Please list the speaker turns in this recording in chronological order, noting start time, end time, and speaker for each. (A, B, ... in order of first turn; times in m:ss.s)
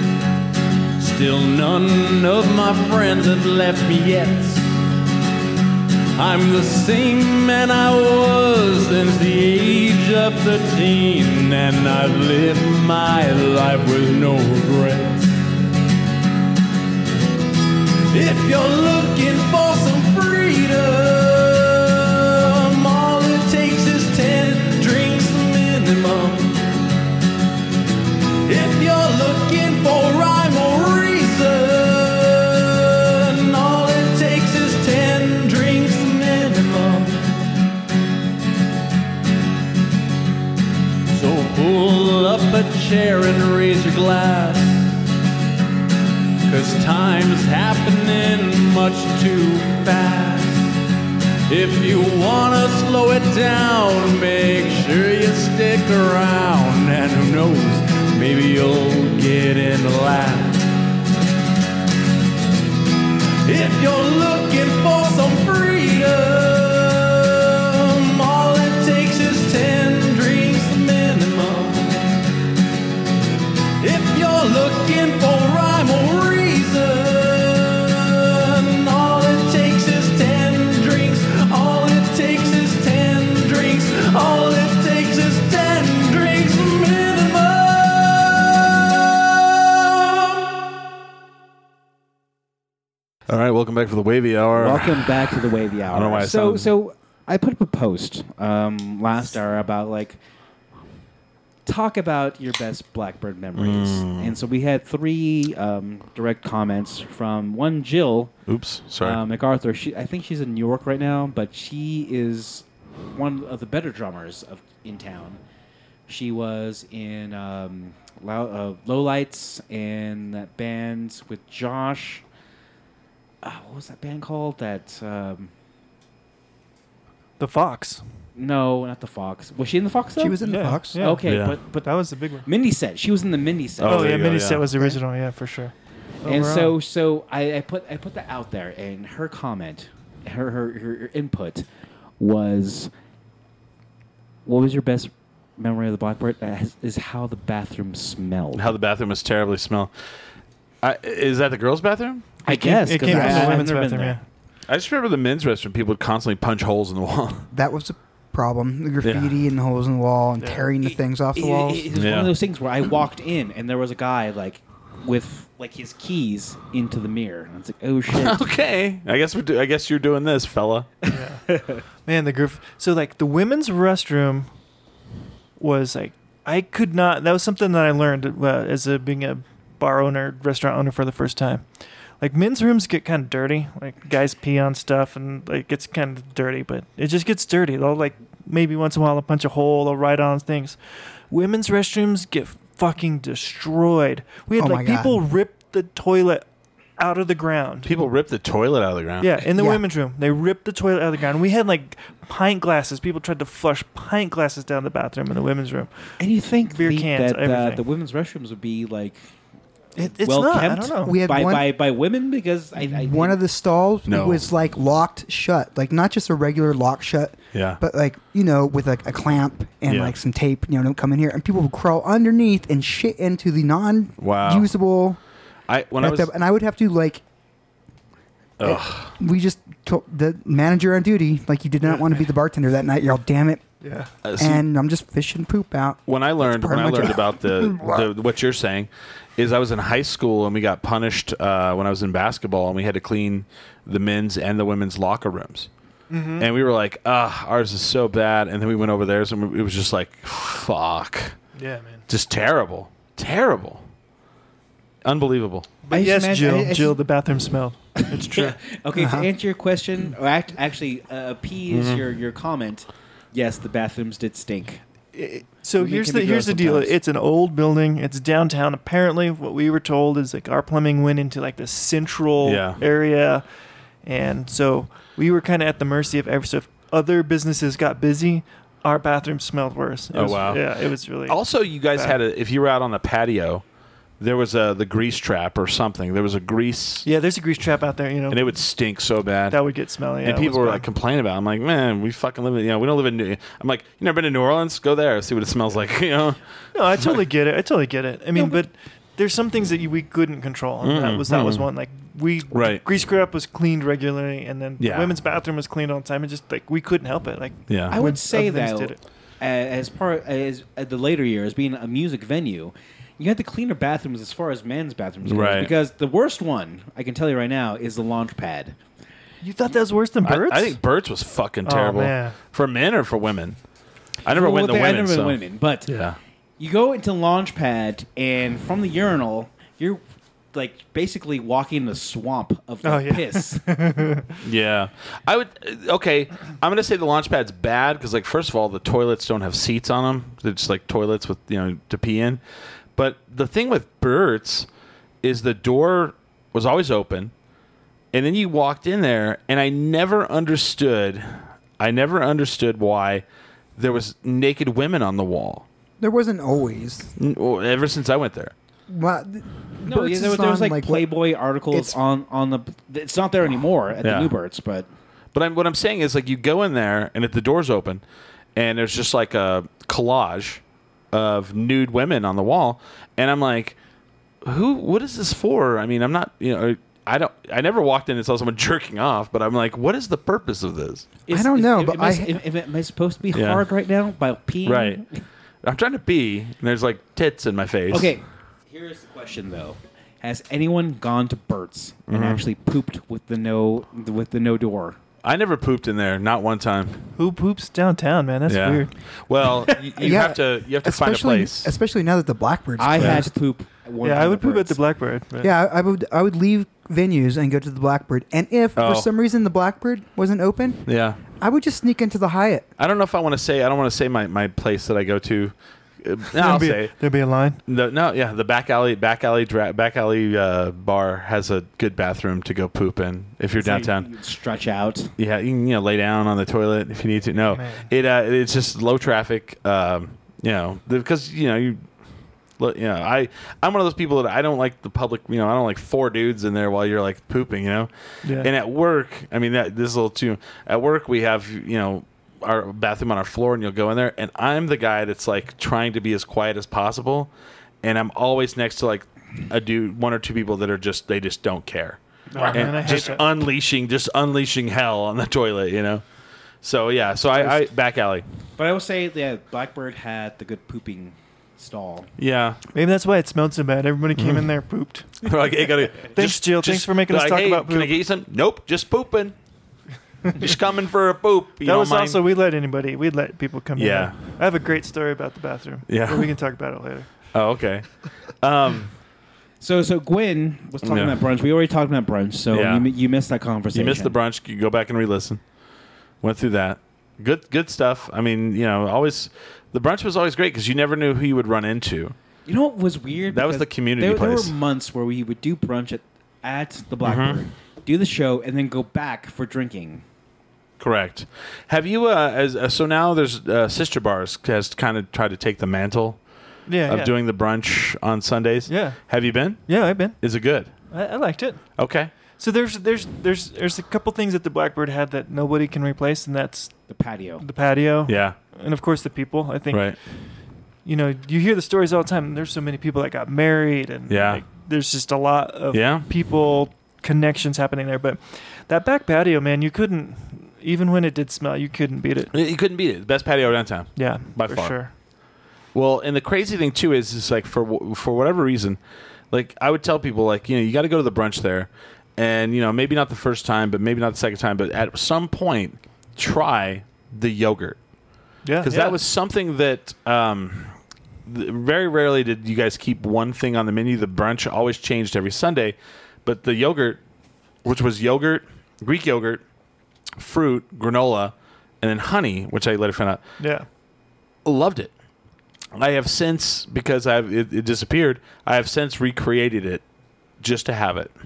0:01.0-0:04.6 A
0:06.2-0:15.2 A
0:10.1-0:12.0 B
0:13.1-0:13.4 B
0:18.1-0:26.7 B
0:28.5-0:37.2 B
0:41.1-0:44.7 A
0:46.5-0:50.6 A
0:51.5-1:00.6 A
1:03.4-1:12.1 B
1:13.8-1:28.4 B
1:33.3-1:35.2 A
1:34.5-1:40.2 C
1:35.9-1:36.7 A
1:41.7-1:48.3 C
1:43.6-1:44.4 A
1:48.5-1:49.2 A
1:49.0-1:55.4 C
1:56.1-2:02.2 C
2:03.4-2:05.5 C
2:07.4-2:08.0 D
2:08.4-2:10.4 C
2:10.2-2:11.0 E
2:10.4-2:12.5 D
2:10.9-2:11.9 C
2:11.3-2:11.6 A
2:12.4-2:14.0 C
2:13.8-2:14.7 A
2:13.8-2:16.8 D
2:16.2-2:21.7 C
2:22.2-2:22.9 C
2:24.5-2:28.7 C
2:28.5-2:29.9 A
2:30.8-2:32.3 A
2:32.4-2:34.2 D
2:32.5-2:34.2 C
2:33.0-2:33.6 E
2:34.7-2:37.5 A
2:37.5-2:41.9 E
2:39.0-2:39.3 A
2:40.4-2:40.7 D
2:40.8-2:48.5 C
2:42.0-2:42.3 A
2:48.1-2:50.9 A
2:51.1-2:51.8 C
2:51.1-2:51.5 D
2:52.0-2:54.5 D
2:55.6-3:01.7 D
3:02.2-3:16.4 D
3:14.5-3:15.2 E
3:17.0-3:17.9 D
3:17.8-3:19.4 A
3:19.2-3:26.2 D
3:19.6-3:19.8 E
3:26.2-3:29.3 C
3:26.7-3:27.8 D
3:30.0-3:31.2 D
3:30.2-3:33.4 C
3:31.0-3:31.7 E
3:32.8-3:45.2 E
3:34.1-3:34.5 A
3:37.5-3:37.8 A
3:39.9-3:40.2 A
3:44.2-3:44.7 A
3:45.7-3:46.3 A
3:46.0-3:47.2 E
3:48.6-3:49.2 A
3:48.6-3:53.6 E
3:51.8-3:52.1 D
3:53.8-3:54.1 D
3:54.2-3:54.6 A
3:54.4-3:58.1 E
3:56.1-4:05.7 A
4:06.1-4:06.5 D
4:06.4-4:11.4 A
4:11.6-4:12.0 D
4:12.1-4:13.8 A
4:15.0-4:15.7 A
4:15.8-4:18.6 D
4:15.9-4:17.0 C
4:18.0-4:24.8 C
4:19.0-4:19.3 E
4:21.7-4:22.1 A
4:25.1-4:33.4 D
4:25.8-4:27.0 C
4:32.4-4:32.8 A
4:34.0-4:41.4 D
4:40.1-4:40.7 A
4:41.3-4:43.6 A
4:44.2-4:47.1 A
4:47.0-4:48.4 D
4:48.3-4:49.6 A
4:49.5-4:50.8 D
4:50.2-4:56.4 A
4:56.7-5:09.0 D
4:58.4-4:58.6 C
5:00.8-5:01.7 A
5:02.5-5:02.8 A
5:04.8-5:05.2 A
5:07.7-5:08.0 A
5:07.9-5:18.8 C
5:15.2-5:15.7 A
5:19.4-5:20.8 D
5:20.2-5:23.6 A
5:21.6-5:22.4 D
5:24.2-5:26.2 A
5:24.3-5:26.0 C
5:26.6-5:30.0 C
5:30.5-5:34.0 C
5:32.8-5:34.3 D
5:34.4-5:42.4 A
5:43.0-5:44.7 A
5:45.2-5:47.3 A
5:48.1-5:53.2 A
5:53.8-5:55.6 A
5:56.0-5:57.1 E
5:57.2-5:58.5 A
5:58.9-6:01.1 E
5:59.8-6:04.9 C
6:01.7-6:02.0 E
6:04.0-6:04.3 A
6:05.3-6:08.0 A
6:08.6-6:13.8 A
6:14.4-6:21.1 A
6:21.3-6:25.2 C
6:21.3-6:22.4 E
6:23.3-6:23.6 A
6:24.6-6:25.0 A
6:25.6-6:28.2 A
6:27.9-6:35.0 C
6:32.1-6:32.4 A
6:35.2-6:37.0 A
6:37.2-6:38.9 D
6:38.5-6:41.7 A
6:40.0-6:43.3 E
6:42.8-6:44.8 C
6:43.0-6:43.2 A
6:44.0-6:45.5 D
6:45.4-6:50.8 E
6:48.8-6:49.1 A
6:50.9-6:51.2 A
6:51.4-6:52.7 E
6:52.8-6:57.0 A
6:56.4-6:57.6 D
6:57.7-7:04.0 A
7:03.6-7:05.1 C
7:05.2-7:11.9 A
7:07.5-7:07.9 D
7:12.6-7:27.3 A
7:18.2-7:18.5 D
7:27.8-7:36.0 A
7:32.3-7:32.8 C
7:32.3-7:33.3 D
7:36.6-7:38.2 A
7:38.6-7:42.1 C
7:42.2-7:42.6 A
7:42.7-7:45.3 D
7:44.2-7:44.4 A
7:45.2-7:49.4 A
7:46.1-7:47.9 D
7:50.4-7:52.2 A
7:51.6-7:57.2 D
7:53.8-7:54.2 A
7:55.9-7:56.4 A
7:57.3-7:59.0 A
7:59.6-8:04.2 C
8:00.8-8:01.2 A
8:02.5-8:02.9 A
8:03.7-8:05.4 A
8:06.2-8:12.2 A
8:12.5-8:20.0 C
8:13.3-8:14.5 A
8:17.0-8:17.4 A
8:20.8-8:26.2 A
8:26.7-8:27.1 D
8:26.8-8:30.7 A
8:28.7-8:29.1 D
8:29.7-8:30.2 D
8:30.9-8:31.7 D
8:31.8-8:32.1 A
8:32.3-8:36.9 D
8:36.9-8:37.4 C
8:37.4-8:40.0 D
8:38.1-8:38.4 A
8:39.7-8:40.0 A
8:40.8-8:52.3 D
8:44.1-8:44.4 A
8:45.7-8:46.1 A
8:52.3-8:54.9 A
8:54.0-8:54.9 D
8:55.7-8:58.8 A
8:59.3-9:07.8 A
9:08.4-9:09.0 D
9:08.6-9:10.7 A
9:11.3-9:17.0 A
9:17.6-9:19.4 A
9:20.2-9:23.2 A
9:23.4-9:23.7 D
9:24.4-9:24.9 A
9:25.8-9:29.8 A
9:30.4-9:31.1 A